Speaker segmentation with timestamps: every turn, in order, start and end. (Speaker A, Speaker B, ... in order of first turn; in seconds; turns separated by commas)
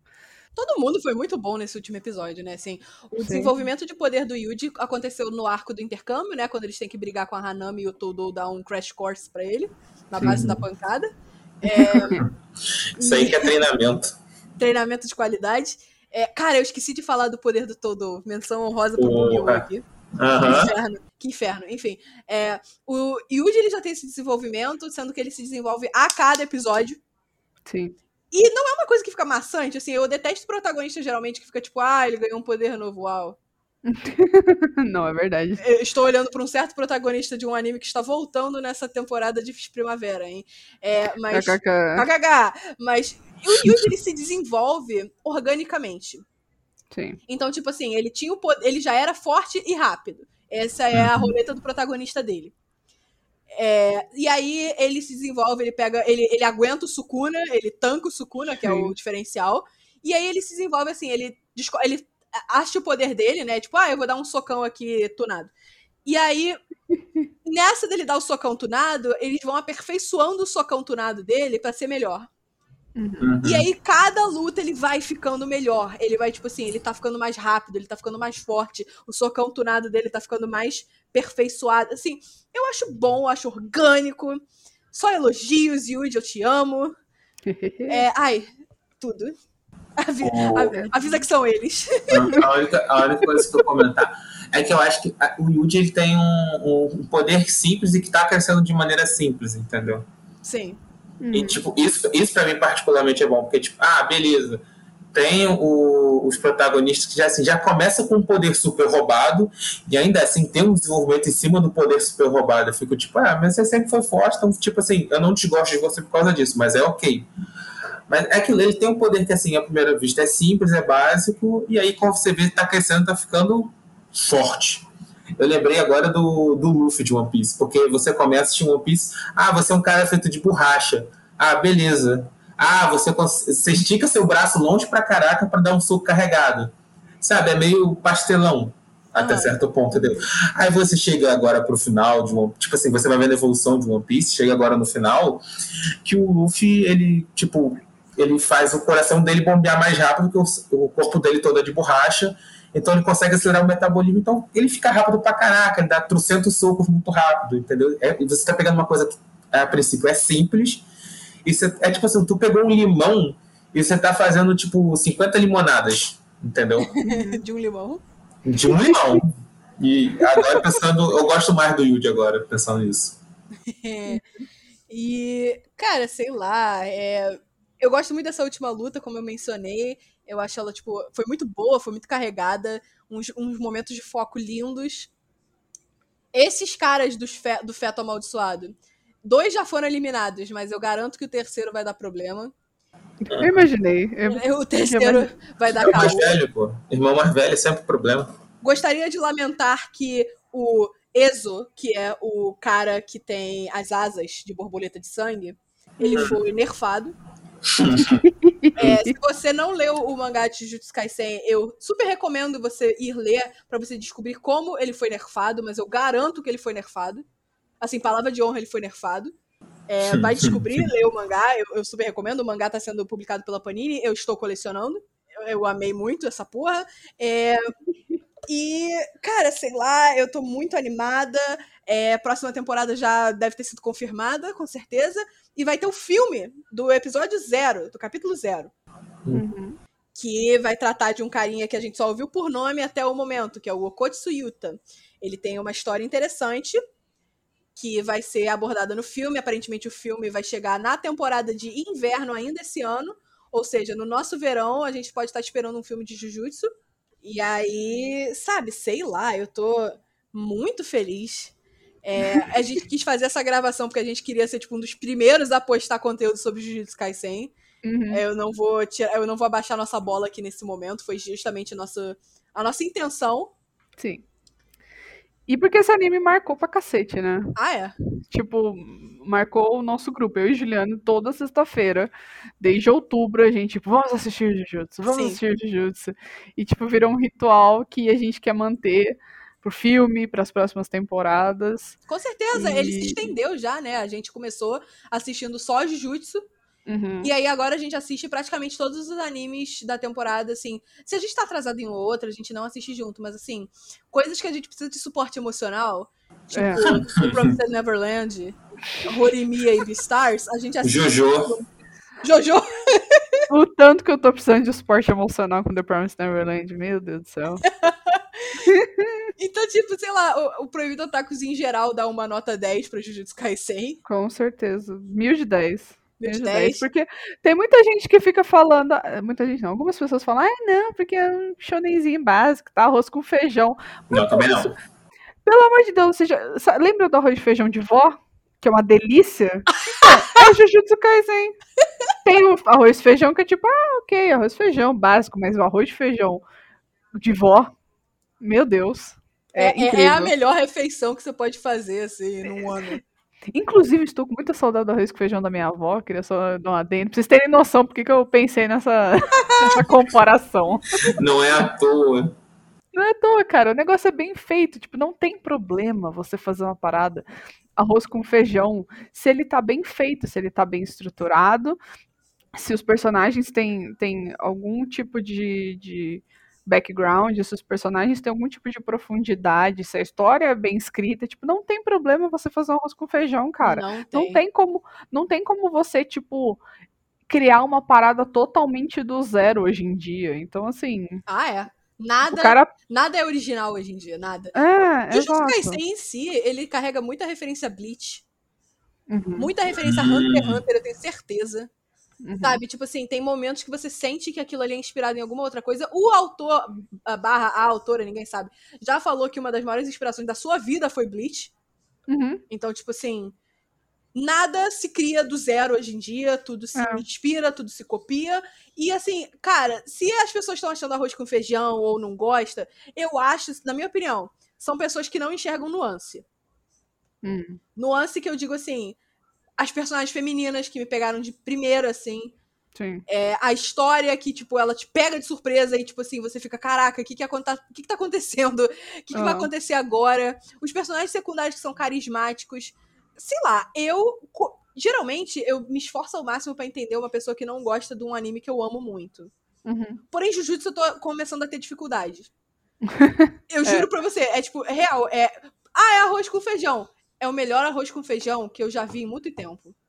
Speaker A: 0.6-11.1, Speaker B: 3.2-3.5, Speaker C: 10.2-10.7, Speaker A: 11.6-12.2, Speaker B: 11.7-12.2, Speaker C: 12.9-14.2, Speaker A: 13.0-13.6, Speaker A: 14.6-19.8, Speaker C: 19.0-19.6, Speaker C: 20.2-20.7, Speaker A: 20.4-27.0, Speaker B: 27.7-28.0, Speaker A: 28.3-33.4, Speaker B: 33.9-35.6, Speaker A: 35.6-46.2, Speaker B: 41.3-42.1, Speaker C: 43.6-43.9, Speaker B: 46.9-47.2, Speaker A: 47.3-52.5, Speaker C: 50.9-51.3, Speaker A: 53.5-65.5, Speaker B: 58.6-58.9, Speaker A: 66.0-66.6, Speaker A: 67.5-72.3, Speaker B: 73.0-73.3, Speaker C: 73.2-73.7, Speaker A: 73.4-84.4, Speaker A: 84.9-86.9, Speaker B: 87.5-88.0, Speaker A: 87.9-89.3, Speaker A: 90.0-92.3, Speaker C: 90.2-90.7, Speaker C: 92.1-100.1, Speaker A: 100.4-100.8, Speaker B: 101.2-101.6, Speaker C: 101.3-104.6, Speaker C: 105.1-117.3, Speaker C: 118.1-124.9, Speaker C: 125.4-145.4, Speaker A: 139.2-139.6, Speaker C: 146.0-160.9, Speaker C: 161.4-166.9, Speaker A: 166.8-168.0, Speaker B: 167.1-167.4, Speaker C: 168.4-173.2, Speaker A: 173.7-174.2, Speaker A: 174.9-185.1, Speaker A: 186.3-192.5, Speaker B: 193.2-195.3, Speaker C: 193.3-193.7, Speaker A: 194.3-196.4, Speaker C: 195.8-198.3, Speaker A: 198.6-207.2, Speaker C: 206.1-206.4, Speaker C: 207.7-208.3, Speaker B: 208.0-209.1, Speaker A: 208.8-217.2, Speaker A: 217.8-219.3, Speaker A: 219.9-227.6, Speaker C: 220.1-220.9, Speaker A: 228.5-238.7, Speaker B: 239.3-239.8, Speaker A: 240.2-246.8, Speaker A: 247.8-256.7, Speaker A: 257.2-267.5, Speaker B: 267.8-268.2, Speaker A: 268.1-273.5, Speaker B: 274.0-274.2, Speaker B: 275.5-277.6, Speaker A: 277.6-277.9, Speaker B: 278.3-292.0, Speaker A: 285.1-285.4, Speaker A: 292.1-296.4, Speaker B: 292.5-293.3, Speaker B: 296.9-297.3, Speaker A: 297.2-311.7, Speaker B: 306.5-306.9, Speaker C: 306.8-307.6, Speaker C: 310.8-311.6, Speaker A: 312.2-313.4, Speaker B: 313.5-317.7, Speaker A: 317.6-318.7, Speaker B: 318.6-319.3, Speaker A: 319.4-324.0, Speaker B: 324.1-334.7, Speaker A: 326.2-326.9, Speaker C: 334.1-334.8, Speaker B: 335.4-341.6, Speaker B: 342.2-346.4, Speaker B: 347.2-347.7, Speaker B: 348.4-350.3, Speaker A: 349.5-353.0, Speaker B: 353.5-361.1, Speaker A: 359.3-359.9, Speaker C: 361.1-362.3, Speaker B: 362.9-367.2, Speaker B: 367.8-371.8, Speaker B: 372.6-386.6, Speaker A: 383.6-384.4, Speaker B: 387.3-391.2, Speaker A: 391.3-394.6, Speaker B: 392.3-392.7, Speaker B: 394.6-395.8, Speaker A: 395.1-398.2, Speaker B: 399.1-399.5, Speaker A: 399.4-401.7, Speaker C: 399.8-400.6, Speaker B: 402.2-402.6, Speaker A: 402.4-411.5, Speaker B: 412.1-412.4, Speaker A: 412.5-413.4, Speaker A: 414.1-426.2, Speaker B: 416.8-417.0, Speaker B: 427.2-427.6, Speaker A: 427.8-429.0, Speaker A: 429.6-432.3, Speaker B: 432.8-433.0, Speaker A: 433.1-449.3, Speaker B: 439.1-439.5, Speaker B: 449.7-450.0, Speaker A: 450.1-452.3, Speaker B: 452.9-453.9, Speaker A: 453.5-459.8